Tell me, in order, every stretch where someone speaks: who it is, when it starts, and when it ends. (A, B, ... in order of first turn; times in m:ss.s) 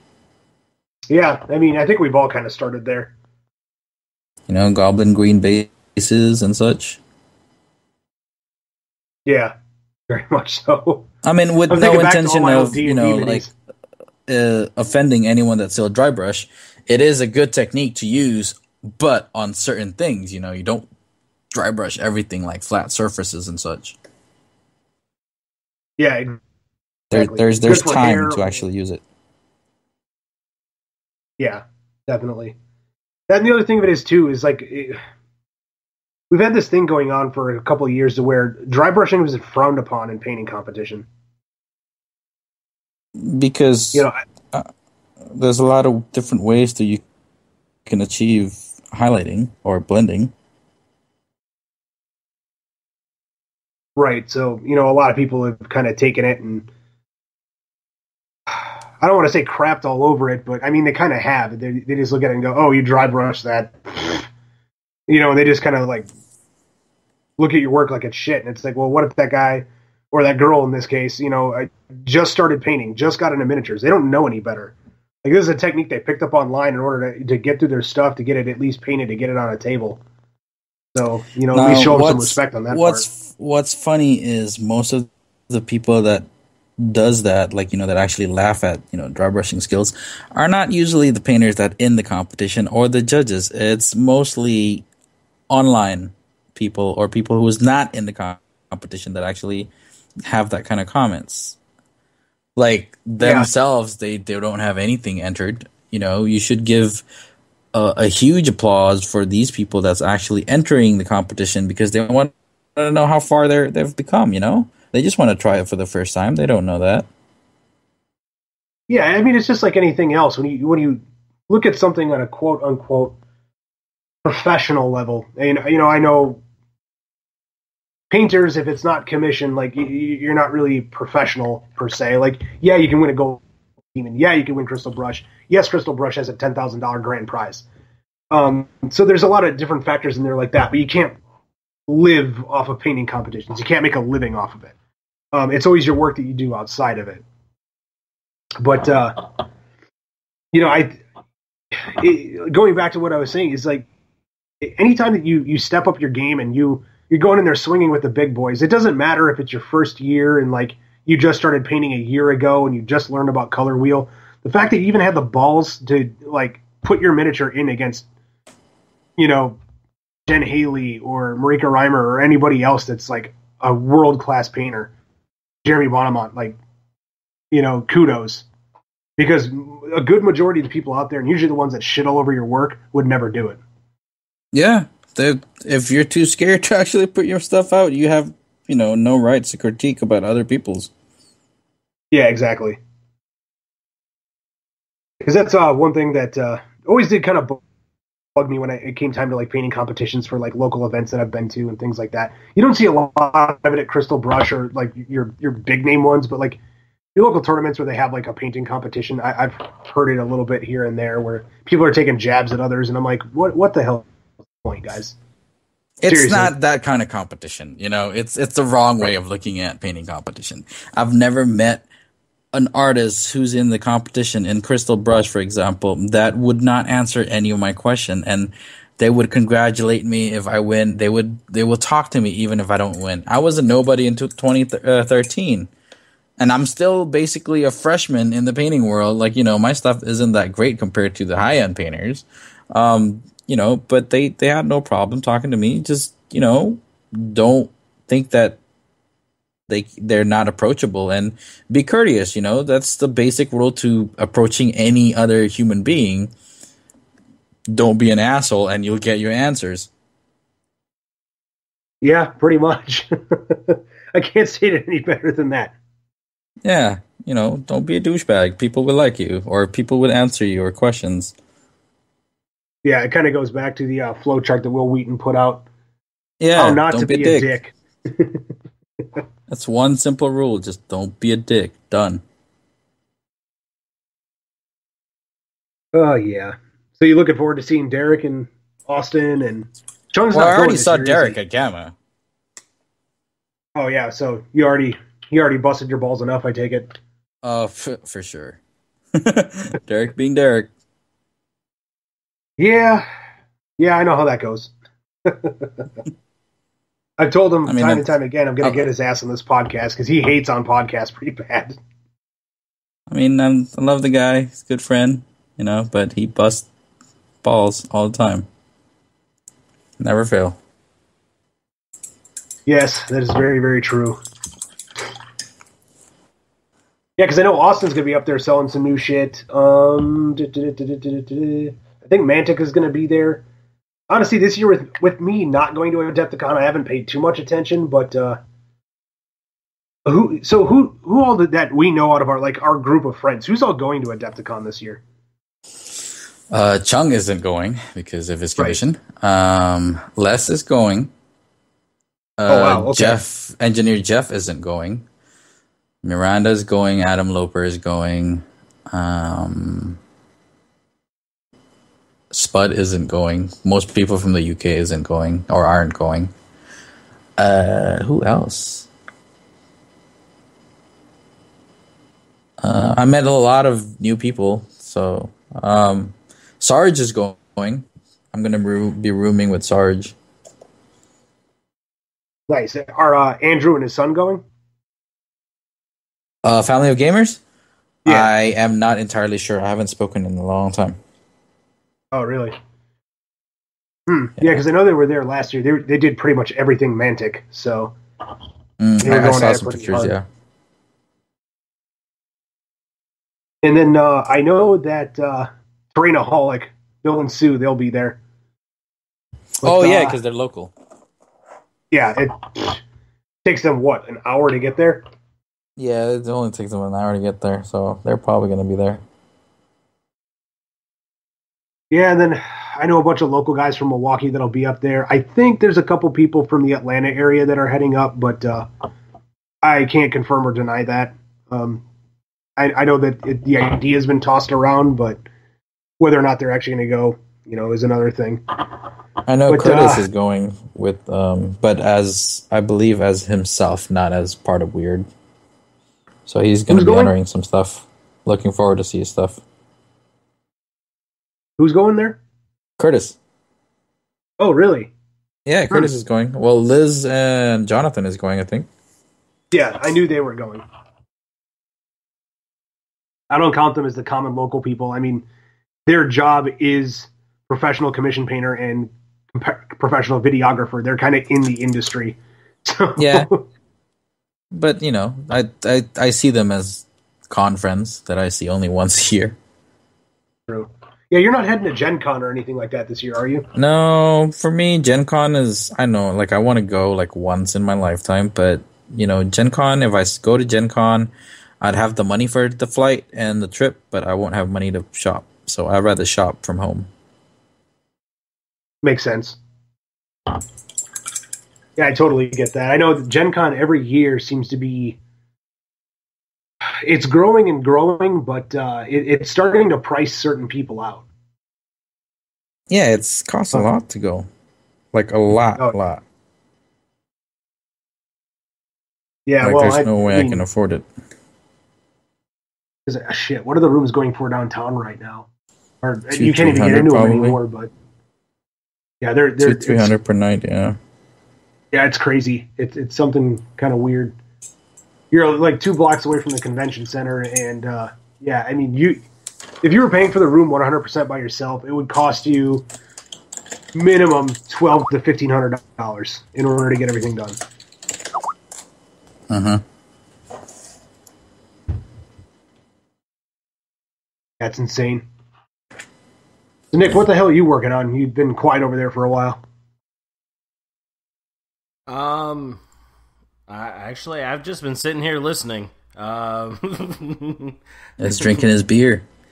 0:01.1-0:03.1 A
0:04.5-0:07.0 B
0:09.2-0:09.5 A
0:10.1-0:11.1 A
0:11.2-0:13.5 B
0:11.7-0:13.5 A
0:14.3-0:20.9 B
0:21.5-0:24.0 B
0:26.0-0:26.4 A
0:27.1-0:28.6 A
0:27.1-0:29.0 B
0:31.4-0:32.6 A
0:33.3-0:35.0 A
0:36.3-0:41.1 A
0:43.2-0:44.7 B
0:43.9-0:44.2 A
0:45.3-0:47.0 B
0:47.8-0:50.3 B
0:54.0-0:56.7 A
0:58.5-1:04.3 A
1:05.1-1:06.1 A
1:07.4-1:20.0 A
1:20.9-1:23.0 A
1:21.5-1:26.2 B
1:26.8-1:34.8 B
1:35.5-1:39.7 B
1:40.2-1:41.6 B
1:42.6-1:47.0 B
1:43.2-1:43.5 A
1:47.7-1:57.1 B
1:58.9-2:03.2 A
2:04.2-2:06.4 A
2:08.1-2:13.4 A
2:13.9-2:17.6 A
2:18.3-2:21.2 A
2:21.9-2:24.7 A
2:25.3-2:27.2 A
2:28.6-2:29.4 A
2:30.5-2:31.0 A
2:31.8-2:33.9 A
2:34.6-2:48.0 A
2:49.2-2:49.6 A
2:50.3-2:54.9 A
2:55.6-2:56.6 A
2:57.5-2:58.4 A
2:59.2-3:03.6 A
3:04.5-3:10.9 B
3:12.1-3:12.8 A
3:15.2-3:17.6 A
3:18.4-3:26.6 A
3:27.1-3:34.1 A
3:34.6-3:35.2 A
3:36.0-3:41.9 B
3:36.1-3:36.5 A
3:42.5-3:55.7 B
3:56.4-4:08.6 B
4:09.7-4:16.3 B
4:17.7-4:19.9 B
4:22.0-4:25.7 A
4:26.6-4:31.3 B
4:32.8-4:35.6 A
4:36.4-4:37.5 B
4:36.5-4:38.4 A
4:39.5-4:42.2 B
4:45.9-4:51.4 A
4:50.3-4:51.9 B
4:53.7-4:56.9 A
4:57.4-4:58.6 B
4:59.1-5:00.7 B
5:02.6-5:03.0 A
5:03.8-5:04.7 A
5:05.2-5:05.8 A
5:07.2-5:11.8 A
5:07.6-5:08.8 B
5:13.1-5:16.7 B
5:17.4-5:18.5 B
5:20.0-5:20.6 B
5:22.7-5:24.2 A
5:27.2-5:33.4 A
5:34.1-5:38.4 A
5:40.0-5:45.0 A
5:46.5-5:51.1 B
5:52.4-5:55.0 B
5:52.5-5:53.2 A
5:56.0-6:00.0 B
6:02.3-6:06.3 B
6:07.4-6:08.9 B
6:12.6-6:20.2 B
6:22.5-6:24.4 A
6:26.4-6:27.4 B
6:28.0-6:28.3 A
6:28.0-6:31.0 B
6:32.1-6:32.5 A
6:34.1-6:37.9 A
6:38.8-6:40.2 B
6:39.0-6:40.2 A
6:43.6-6:48.2 A
6:49.6-6:50.2 A
6:49.6-6:50.7 B
6:51.9-6:52.8 A
6:53.4-6:55.0 A
6:55.8-6:59.0 B
7:01.9-7:08.7 A
7:09.6-7:11.8 A
7:12.6-7:15.2 A
7:16.0-7:18.4 A
7:19.3-7:25.0 B
7:19.5-7:20.1 A
7:26.3-7:29.4 B
7:26.7-7:27.1 A
7:31.6-7:32.2 A
7:32.8-7:33.2 B
7:34.4-7:34.9 A
7:35.4-7:38.7 B
7:35.7-7:36.0 A
7:39.5-7:40.6 A
7:43.3-7:45.2 A
7:45.8-7:53.4 A
7:53.0-7:53.3 B
7:54.5-7:59.4 B
8:00.5-8:03.5 A
8:03.5-8:16.9 B
8:18.8-8:19.4 A
8:21.8-8:25.0 A
8:26.8-8:31.0 A
8:32.7-8:34.3 B
8:34.9-8:36.0 B
8:39.3-8:40.4 A
8:39.4-8:40.8 B
8:42.8-8:45.3 A
8:45.8-8:47.7 A
8:46.1-8:47.4 B
8:49.0-8:49.9 A
8:49.4-8:50.8 B
8:51.7-8:54.1 A
8:55.1-8:59.0 A
8:59.6-9:02.6 A
9:03.7-9:07.4 A
9:09.3-9:09.6 B
9:14.4-9:15.0 A
9:16.7-9:19.4 A
9:21.9-9:22.6 C
9:23.5-9:28.4 C
9:28.0-9:29.0 B